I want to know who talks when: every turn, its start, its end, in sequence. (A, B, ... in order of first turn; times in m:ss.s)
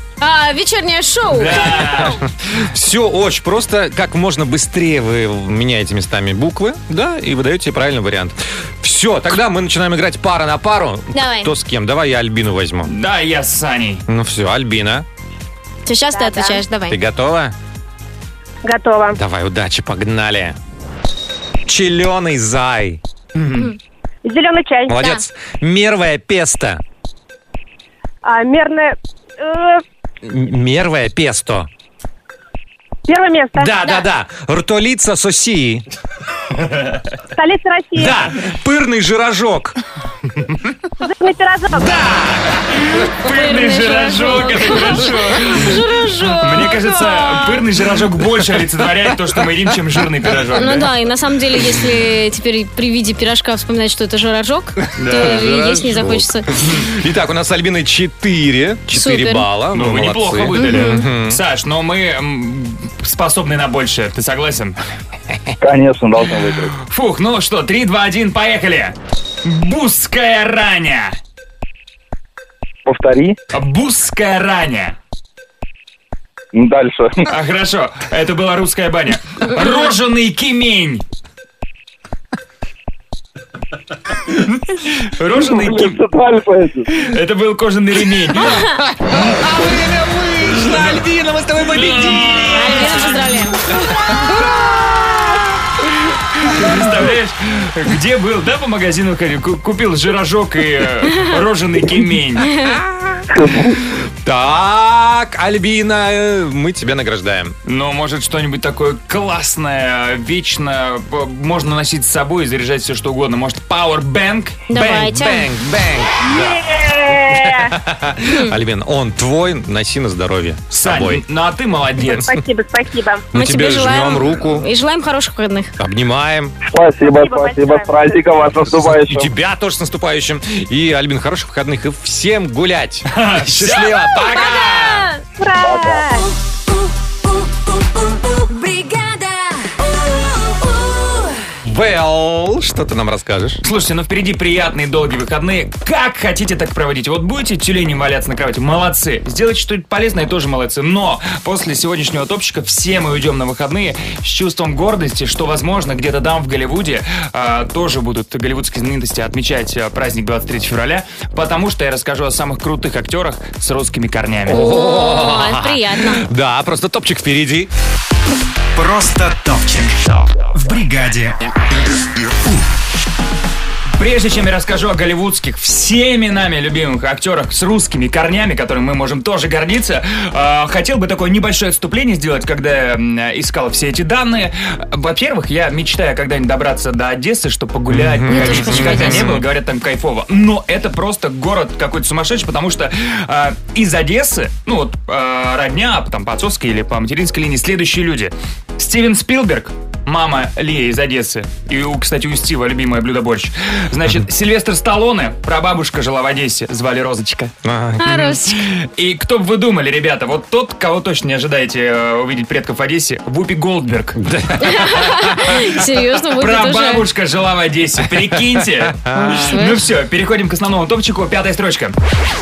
0:00.2-0:01.7 A
0:01.3-0:02.2 B
0:02.0-0:12.9 C
0:11.1-0:11.5 A
0:12.9-0:14.0 B
0:14.1-0:15.1 C
0:15.9-0:17.0 A
0:16.2-0:16.6 D
0:16.9-0:17.6 C
0:18.6-0:19.2 D
0:19.2-0:20.6 C
0:21.6-0:23.0 C
0:23.4-0:23.7 B
0:24.2-0:25.0 D
0:24.9-0:26.8 C
0:25.0-0:25.2 A
0:28.2-0:29.8 D
0:30.2-0:31.7 C
0:33.1-0:33.7 D
0:33.6-0:35.8 C
0:37.4-0:38.2 D
0:38.0-0:39.8 C
0:41.0-0:42.0 D
0:41.8-0:42.6 C
0:42.6-0:45.8 B
0:43.3-0:47.6 A
0:46.4-0:50.9 B
0:50.6-0:56.5 A
0:55.0-0:55.6 B
0:55.0-1:01.4 C
0:58.9-0:59.5 A
0:59.7-1:04.8 B
1:00.6-1:01.1 A
1:05.6-1:06.8 E
1:06.8-1:11.2 B
1:12.9-1:13.4 E
1:13.5-1:15.0 B
1:16.5-1:17.3 E
1:17.3-1:21.0 B
1:24.8-1:26.0 B
1:25.3-1:26.9 E
1:26.9-1:28.6 B
1:29.0-1:33.3 C
1:30.6-1:31.0 B
1:31.6-1:33.2 B
1:32.5-1:33.6 A
1:36.4-1:42.5 B
1:42.9-1:43.2 C
1:43.4-1:43.7 E
1:44.2-1:47.5 C
1:47.7-1:55.0 B
1:54.7-1:55.5 A
1:54.8-2:01.2 C
1:56.2-1:57.7 D
1:58.3-1:58.6 A
2:00.8-2:02.3 B
2:02.2-2:03.2 D
2:03.3-2:04.6 C
2:03.3-2:05.7 A
2:05.8-2:06.6 C
2:06.7-2:09.3 E
2:07.1-2:08.1 D
2:08.7-2:14.9 C
2:13.1-2:15.0 B
2:14.3-2:15.2 A
2:15.4-2:16.3 D
2:15.6-2:16.0 E
2:18.6-2:19.1 A
2:21.6-2:23.6 C
2:23.6-2:44.7 B
2:44.5-2:47.7 C
2:44.5-2:46.2 A
2:48.8-2:51.5 F
2:52.2-2:52.7 F
2:54.0-3:27.5 B
3:07.9-3:09.4 C
3:08.3-3:09.3 A
3:27.6-3:28.3 C
3:28.0-3:28.6 A
3:28.2-3:34.2 B
3:34.2-3:35.5 C
3:34.6-3:37.0 A
3:36.4-3:42.0 B
3:38.1-3:38.3 C
3:38.9-3:39.5 C
3:39.1-3:39.8 A